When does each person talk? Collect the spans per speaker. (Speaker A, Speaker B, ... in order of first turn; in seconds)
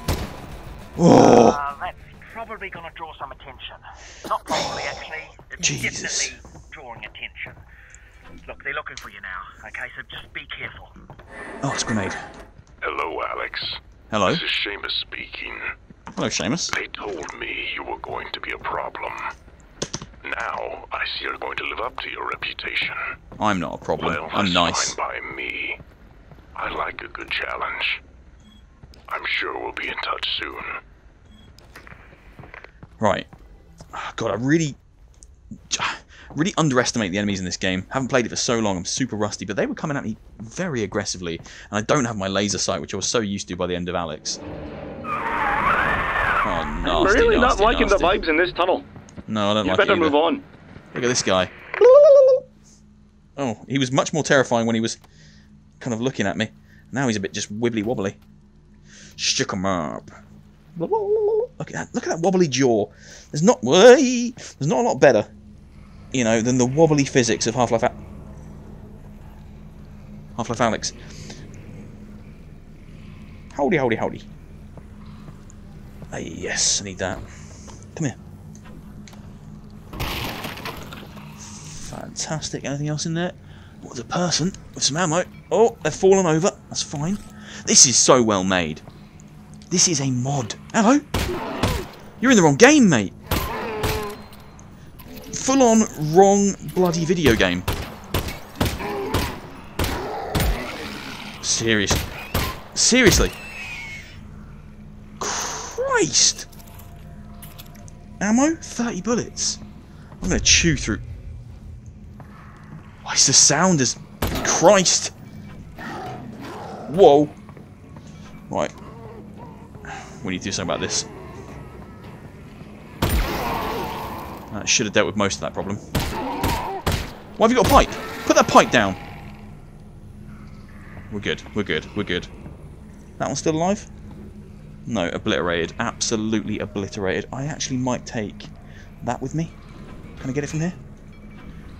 Speaker A: 1.0-1.6, 4.5-4.9, 5.6-6.3, 11.6-12.2, 14.1-14.4, 16.1-16.7, 23.4-24.9, 33.0-33.3, 33.9-34.8, 35.7-44.4, 46.4-48.2, 49.3-50.2, 50.9-52.4, 53.4-55.0, 55.8-58.2, 59.2-60.1, 60.8-65.3, 66.1-68.0, 70.3-70.9, 73.5-74.3, 76.1-77.2, 81.4-88.8, 89.7-91.0, 92.2-93.1, 95.3-97.7, 101.4-102.0, 102.7-103.3, 105.2-106.5, 108.2-109.6, 110.2-111.0, 113.0-115.1, 116.9-117.3, 119.9-121.1, 124.5-125.8, 127.4-129.0, 131.1-132.3, 133.2-133.9, 134.8-138.5, 139.0-139.6, 140.2-140.8
Speaker B: 1.1-7.6, 8.4-10.9
Speaker C: 12.8-15.7, 16.7-19.3, 20.2-23.1, 24.0-25.8, 26.5-28.0, 29.1-30.8
Speaker D: 46.8-48.9, 49.6-50.4